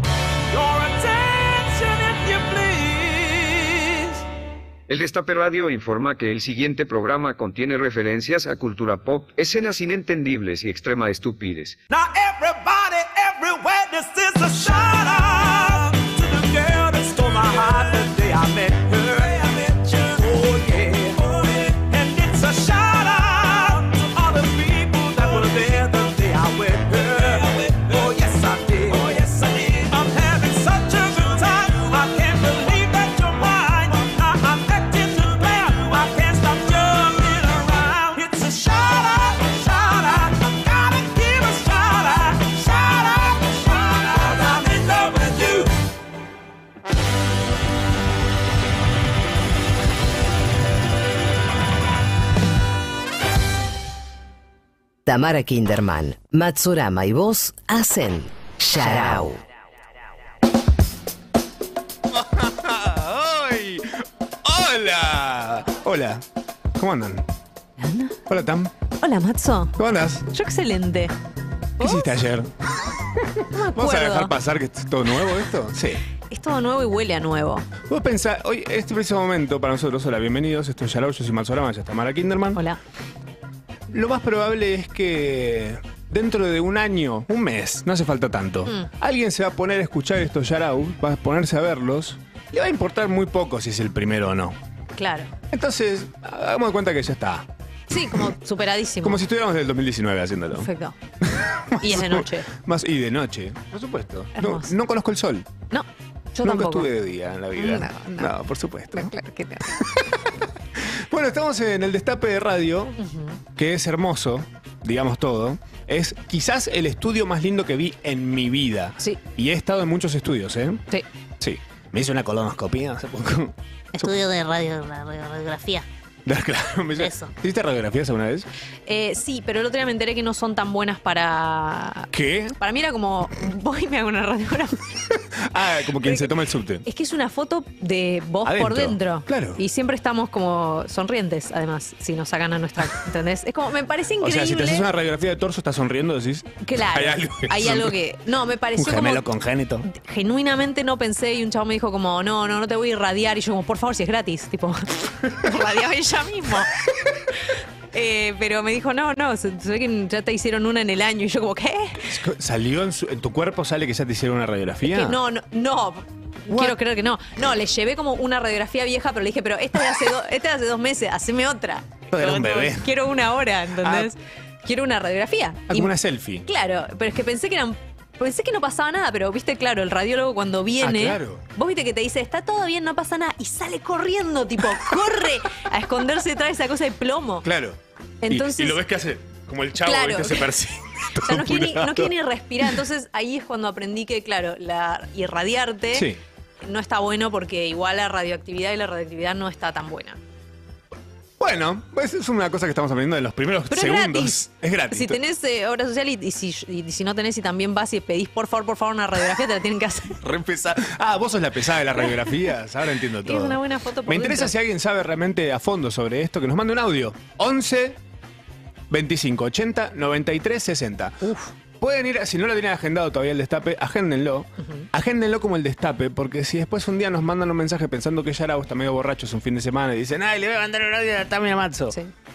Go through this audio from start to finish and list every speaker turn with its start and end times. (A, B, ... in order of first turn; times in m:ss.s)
0:00.5-0:04.2 A
0:04.9-0:11.8 B
0:11.9-0:45.7 A
0:55.1-0:59.4 C
1:02.1-1:06.2 D
1:06.8-1:07.3 D
1:07.8-1:08.2 E
1:08.3-1:08.7 D
1:09.0-1:09.8 E
1:09.8-1:10.3 D
1:10.3-1:11.1 E
1:11.8-1:12.5 D
1:11.8-1:12.1 E
1:13.2-1:16.0 D
1:13.5-1:14.3 E
1:16.3-1:17.7 E
1:17.8-1:22.6 D
1:23.9-1:34.6 D
1:35.0-1:35.3 E
1:35.5-1:37.5 D
1:37.9-1:39.2 E
1:39.0-1:40.7 D
1:40.5-1:41.0 E
1:41.2-1:45.5 D
1:41.8-1:42.5 E
1:44.4-1:44.7 E
1:45.7-1:46.9 E
1:46.4-1:49.1 D
1:47.6-1:48.3 E
1:48.9-1:49.8 E
1:49.8-1:53.0 D
1:53.0-1:53.4 E
1:53.6-2:00.8 D
2:01.4-2:04.1 D
2:04.0-2:05.9 F
2:06.3-2:08.5 D
2:07.0-2:07.3 F
2:08.9-2:14.8 E
2:12.1-2:12.6 D
2:15.1-2:16.8 D
2:16.9-2:24.9 E
2:18.4-2:19.6 D
2:24.2-2:28.0 D
2:26.6-2:29.3 E
2:28.8-2:29.9 D
2:29.9-2:36.7 E
2:37.5-2:42.0 E
2:42.0-2:45.2 D
2:44.8-2:55.9 E
2:46.5-2:46.8 D
2:52.1-2:52.9 D
2:53.8-2:54.1 D
2:55.7-2:56.5 D
2:56.5-3:07.4 E
3:00.8-3:01.4 D
3:07.4-3:12.7 D
3:08.2-3:08.8 E
3:09.8-3:10.5 E
3:11.2-3:16.1 E
3:15.9-3:16.2 D
3:16.6-3:20.2 E
3:21.4-3:25.2 D
3:23.7-3:24.4 E
3:24.9-3:30.2 E
3:30.2-3:38.0 D
3:32.0-3:32.3 E
3:33.2-3:34.5 E
3:38.9-3:52.0 D
3:41.2-3:41.5 E
3:44.6-3:44.9 E